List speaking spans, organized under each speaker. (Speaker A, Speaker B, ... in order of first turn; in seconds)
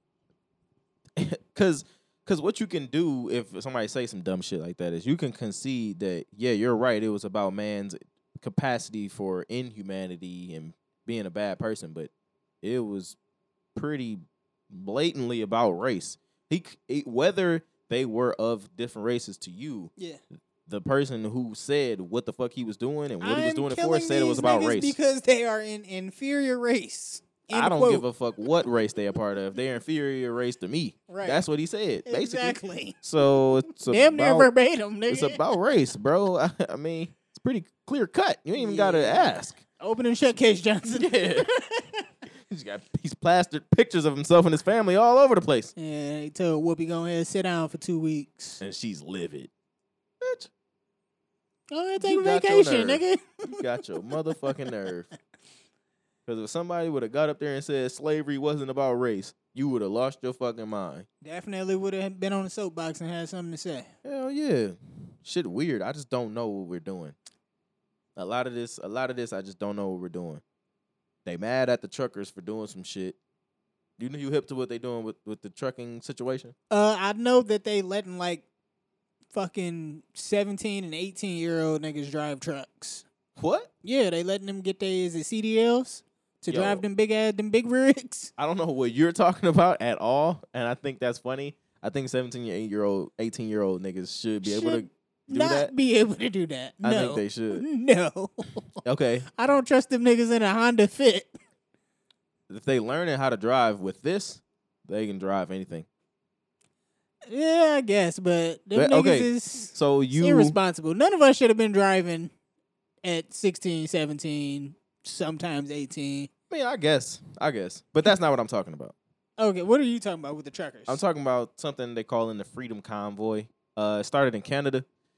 Speaker A: 1.2-12.1, 12.6-13.2, 13.8-19.9, 20.7-25.0, 27.5-34.5, 35.1-39.6, 40.9-41.5, 42.5-45.7, 48.6-49.5, 50.2-50.5, 52.0-55.1, 56.3-61.1, 64.0-67.2, 68.2-70.4, 71.2-73.2, 74.0-76.5, 83.4-83.7, 86.5-86.8, 88.4-95.7, 96.8-97.7, 98.8-99.3, 102.5-105.9, 108.7-110.6, 116.5-119.0, 120.9-124.8
Speaker B: 23.2-28.1, 31.1-31.4, 32.1-35.5, 38.6-42.1, 45.8-48.6, 51.7-53.6, 61.2-63.9, 76.7-78.5, 79.3-83.0, 83.8-88.3, 94.4-98.7, 99.4-101.3, 107.3-112.3, 113.0-116.3, 119.4-121.0